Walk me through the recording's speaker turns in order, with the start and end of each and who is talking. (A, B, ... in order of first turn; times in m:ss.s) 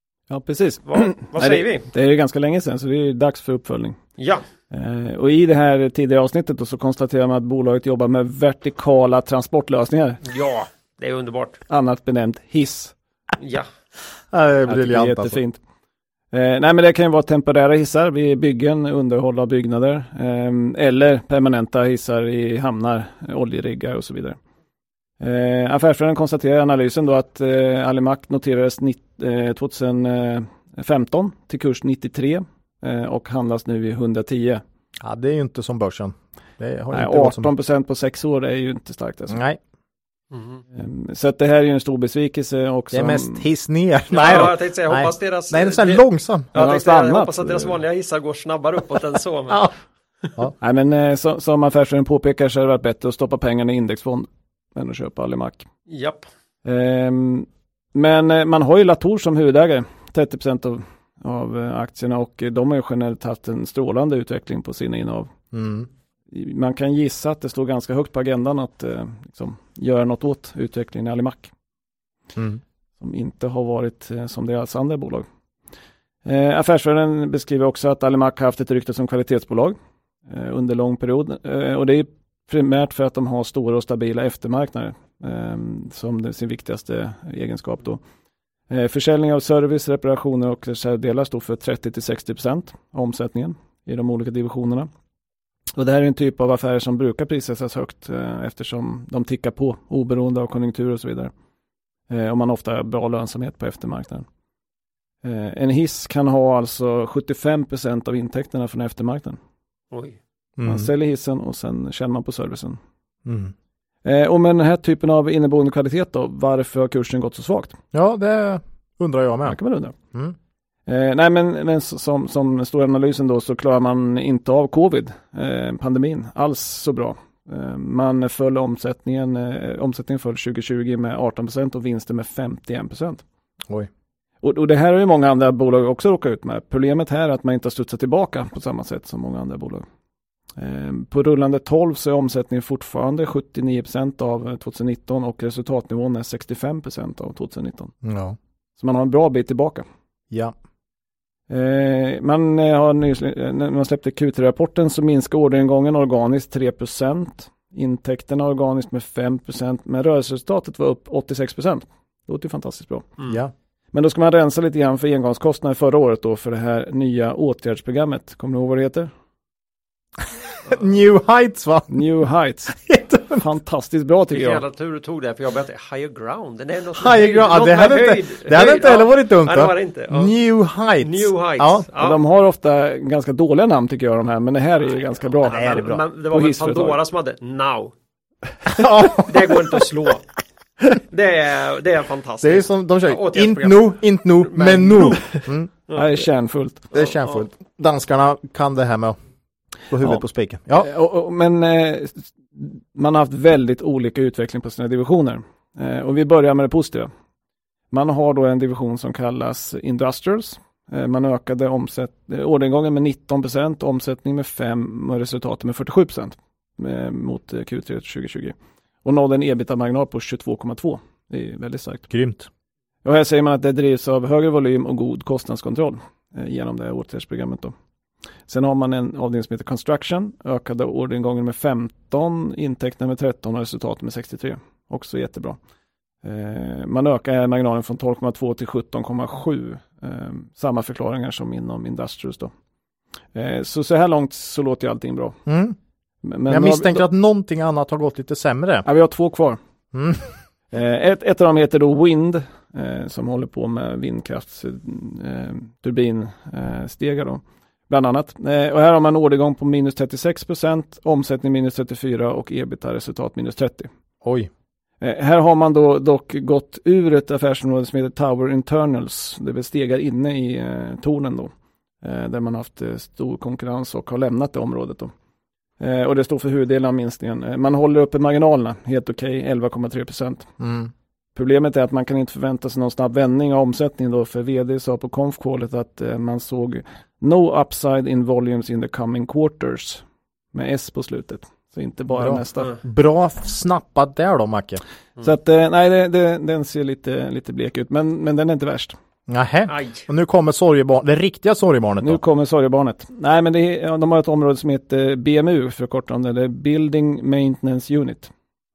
0:00.3-0:04.0 A
0:00.9-0:01.8 B
0:04.2-0:04.4 B
0:04.7-0:10.2 A
0:10.2-0:11.6 B
0:11.7-0:12.9 A
0:13.4-0:13.7 B
0:14.3-0:15.4 C
0:14.7-0:15.6 A
0:16.3-0:24.4 A
0:25.2-0:34.6 A
0:35.0-0:37.5 C
0:36.9-0:39.4 A
0:39.3-0:39.6 C
0:40.3-0:40.6 B
0:40.7-0:43.4 A
0:42.9-0:46.5 C
0:44.1-0:49.7 B
0:46.6-0:47.8 A
0:50.6-0:55.6 A
0:55.9-0:56.3 B
0:56.6-1:05.3 A
1:05.5-1:05.9 C
1:06.3-1:11.5 A
1:12.4-1:12.6 C
1:13.0-1:15.2 A
1:16.2-1:19.8 A
1:20.3-1:28.0 A
1:28.7-1:34.9 A
1:35.7-1:41.3 A
1:42.1-1:44.3 A
1:45.2-1:49.4 A
1:49.9-1:50.2 B
1:50.6-1:50.9 C
1:50.6-1:52.8 A
1:53.3-1:53.5 C
1:54.0-1:57.8 A
1:57.9-1:59.6 C
1:59.4-1:59.9 A
2:00.9-2:13.2 A
2:14.4-2:19.8 A
2:20.6-2:27.9 A
2:28.0-2:28.4 C
2:28.8-2:29.8 A
2:31.5-2:43.1 A
2:43.3-2:43.5 C
2:43.9-2:49.1 A
2:50.6-2:52.0 C
2:51.9-2:52.7 A
2:52.7-2:53.4 C
2:53.4-2:54.6 A
2:54.3-3:00.3 B
2:57.0-3:01.8 C
3:01.0-3:02.2 B
3:02.0-3:05.6 A
3:05.4-3:07.9 B
3:05.5-3:06.0 C
3:06.3-3:07.0 A
3:08.7-3:09.8 C
3:09.2-3:10.2 B
3:11.1-3:16.1 B
3:12.4-3:15.7 C
3:15.9-3:16.9 A
3:16.9-3:19.2 C
3:16.9-3:17.4 B
3:19.9-3:20.9 C
3:20.8-3:27.1 A
3:27.9-3:42.1 A
3:42.1-3:42.5 C
3:43.0-3:47.7 A
3:48.5-3:55.6 A
3:56.2-4:02.5 A
4:03.3-4:05.4 A
4:05.5-4:05.8 C
4:06.2-4:07.0 A
4:06.5-4:08.8 C
4:08.8-4:09.6 A
4:09.9-4:10.4 C
4:10.7-4:23.9 A
4:24.2-4:24.5 C
4:25.0-4:35.1 A
4:35.8-4:40.5 A
4:40.6-4:40.9 C
4:41.3-4:52.7 A
4:52.1-4:54.8 C
4:55.2-4:59.0 A
4:59.3-5:02.2 C
4:59.7-5:00.0 B
5:02.0-5:08.3 A